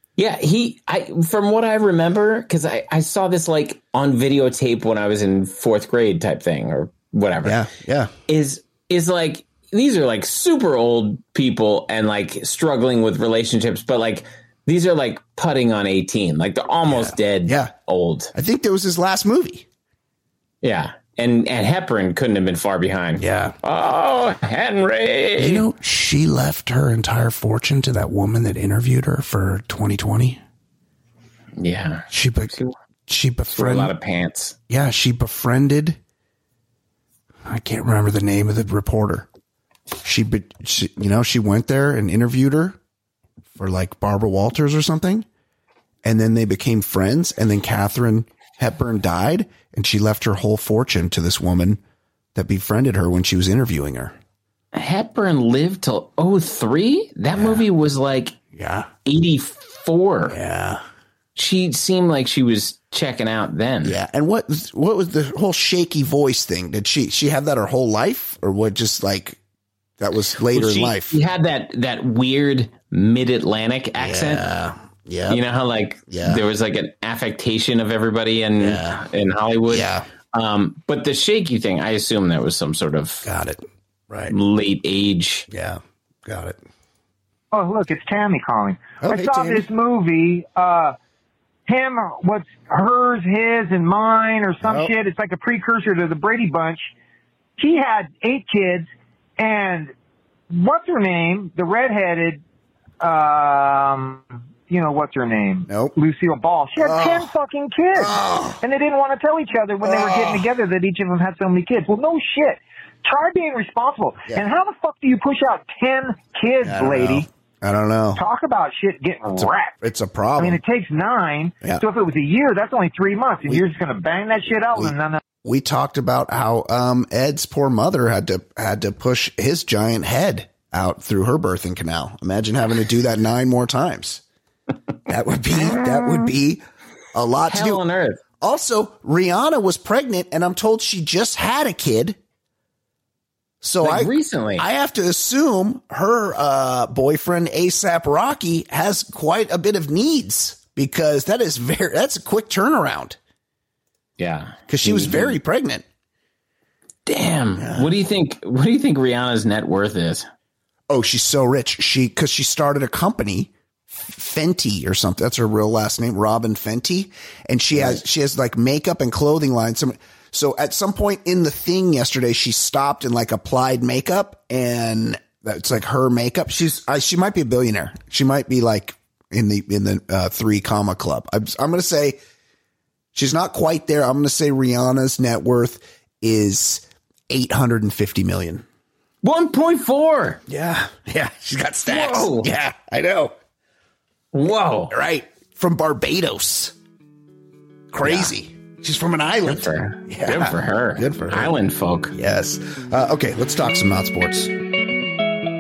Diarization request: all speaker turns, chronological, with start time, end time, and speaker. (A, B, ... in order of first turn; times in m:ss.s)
0:00.2-0:07.6 A
0:07.4-0:08.1 B
0:08.3-0:18.3 A
0:16.9-0:17.7 B
0:18.3-0:19.7 B
0:20.6-0:25.6 A
0:23.2-0:23.6 B
0:25.4-0:30.4 B
0:31.6-0:32.8 A
0:32.1-0:32.6 B
0:33.1-0:33.9 B
0:33.5-0:34.6 A
0:34.7-0:36.0 B
0:37.4-0:39.3 B
0:40.0-0:42.8 B
0:43.6-0:45.3 B
0:46.0-0:51.8 B
0:52.4-0:54.2 B
0:54.7-0:58.4 A
0:57.3-0:57.7 B
0:58.5-0:58.9 B
0:59.0-1:00.4 A
1:00.3-1:00.8 B
1:01.4-1:04.0 A
1:03.8-1:09.4 B
1:10.0-1:11.2 B
1:10.5-1:14.4 A
1:14.0-1:15.4 B
1:15.3-1:23.3 A
1:16.1-1:16.4 B
1:18.6-1:19.0 B
1:19.7-1:20.1 B
1:23.2-1:24.3 B
1:24.3-1:25.5 A
1:25.5-1:26.6 B
1:27.5-1:31.0 C
1:29.0-1:29.7 B
1:31.7-1:36.9 C
1:34.6-1:34.9 B
1:37.6-1:39.9 C
1:40.5-1:42.4 C
1:43.0-1:57.3 C
1:45.7-1:46.0 B
1:46.8-1:47.3 B
1:48.0-1:48.6 B
1:49.8-1:50.5 B
1:56.6-1:58.2 B
1:58.2-1:59.8 C
1:59.4-2:00.6 B
2:00.4-2:05.2 C
2:04.7-2:14.2 B
2:15.1-2:16.6 B
2:17.1-2:17.8 B
2:17.5-2:18.2 A
2:18.4-2:22.2 B
2:23.6-2:33.2 B
2:23.8-2:24.7 A
2:34.2-2:35.4 A
2:34.7-2:35.8 B
2:37.1-2:40.3 A
2:37.6-2:37.9 B
2:40.9-3:02.2 B
3:03.1-3:08.6 B
3:09.2-3:10.4 A
3:10.5-3:13.4 B
3:11.9-3:12.5 A
3:14.3-3:14.9 A
3:14.9-3:16.8 B
3:17.9-3:21.5 B
3:18.0-3:18.3 A
3:19.4-3:22.1 A
3:22.1-3:24.6 B